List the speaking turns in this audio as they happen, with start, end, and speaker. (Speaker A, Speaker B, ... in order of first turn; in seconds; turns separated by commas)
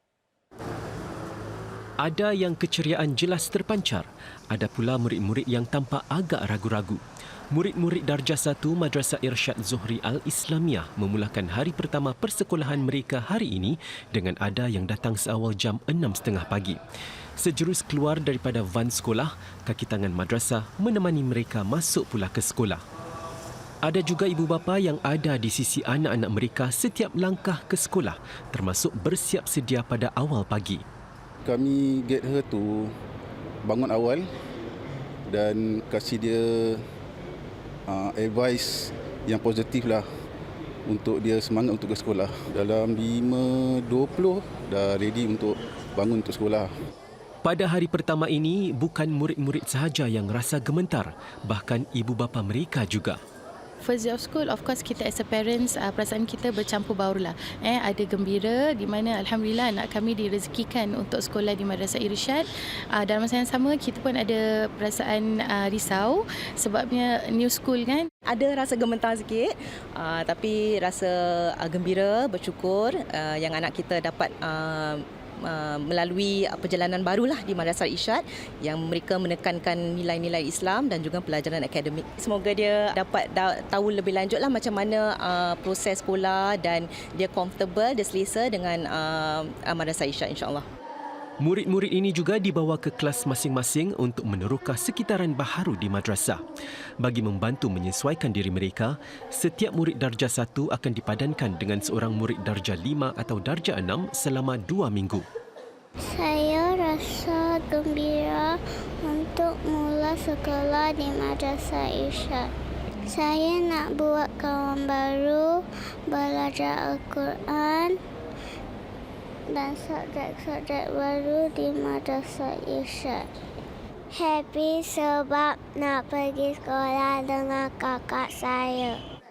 Speaker A: 2.0-7.0, Speaker A: 7.5-16.8, Speaker A: 17.4-22.8, Speaker A: 23.9-30.8, Speaker B: 31.4-32.9, Speaker B: 33.6-34.2, Speaker B: 35.3-36.8, Speaker B: 37.9-40.0, Speaker B: 40.9-46.7, Speaker A: 47.4-53.2, Speaker C: 54.0-62.4, Speaker C: 63.0-68.0, Speaker D: 68.3-90.7, Speaker A: 91.4-96.4, Speaker A: 97.0-105.2, Speaker E: 106.1-112.5, Speaker E: 113.1-118.0, Speaker E: 119.5-123.3, Speaker E: 124.1-129.0